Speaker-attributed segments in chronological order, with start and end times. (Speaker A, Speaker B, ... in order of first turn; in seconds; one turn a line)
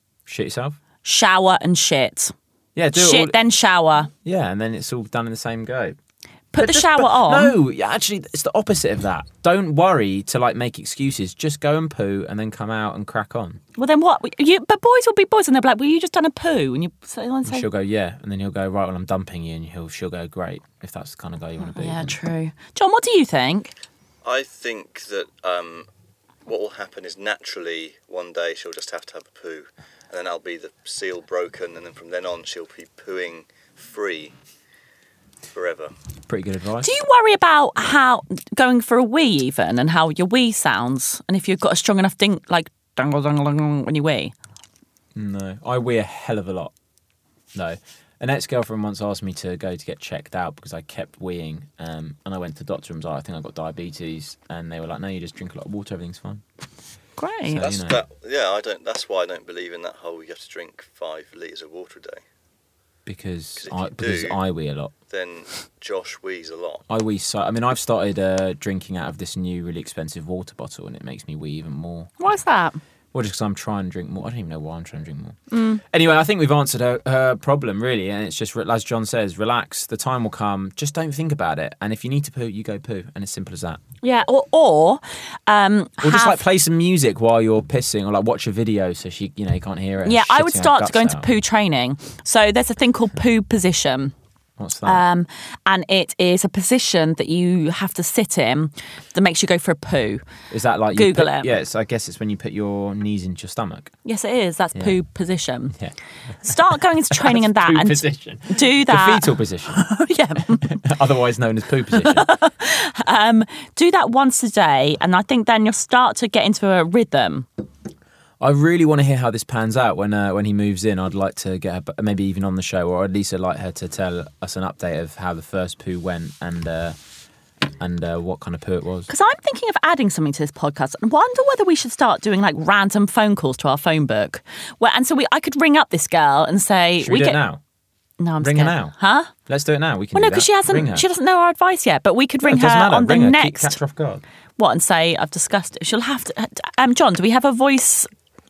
Speaker A: 0.3-0.8
Speaker B: 1.0-2.3
Speaker A: 2.8-3.4
Speaker B: 2.9-4.1
Speaker A: 4.2-6.0
Speaker B: 6.5-7.5
Speaker A: 6.6-13.6
Speaker B: 13.8-17.7
Speaker A: 17.4-22.2
Speaker B: 21.6-23.7
Speaker C: 24.2-25.9
Speaker C: 26.5-34.3
Speaker C: 35.5-35.9
Speaker A: 36.3-36.9
Speaker B: 36.8-44.3
Speaker A: 45.1-46.7
Speaker A: 47.5-56.4
Speaker B: 57.2-57.6
Speaker A: 57.5-58.0
Speaker C: 57.6-62.2
Speaker A: 63.1-64.9
Speaker C: 63.6-64.4
Speaker C: 65.1-66.8
Speaker A: 66.9-72.2
Speaker B: 72.2-72.8
Speaker A: 73.1-83.8
Speaker B: 75.5-75.8
Speaker B: 84.0-86.4
Speaker A: 86.0-91.3
Speaker B: 90.0-94.1
Speaker A: 94.6-95.0
Speaker B: 94.8-100.2
Speaker A: 100.5-103.9
Speaker B: 100.9-101.5
Speaker B: 104.0-105.8
Speaker A: 105.7-109.8
Speaker B: 106.4-110.8
Speaker A: 110.5-112.3
Speaker B: 112.0-117.5
Speaker A: 118.4-127.0
Speaker A: 127.8-129.1
Speaker B: 129.1-137.4
Speaker A: 137.0-137.6
Speaker B: 138.2-139.3
Speaker A: 138.4-138.9
Speaker A: 139.5-141.1
Speaker B: 140.1-143.8
Speaker A: 142.4-144.2
Speaker B: 144.6-148.1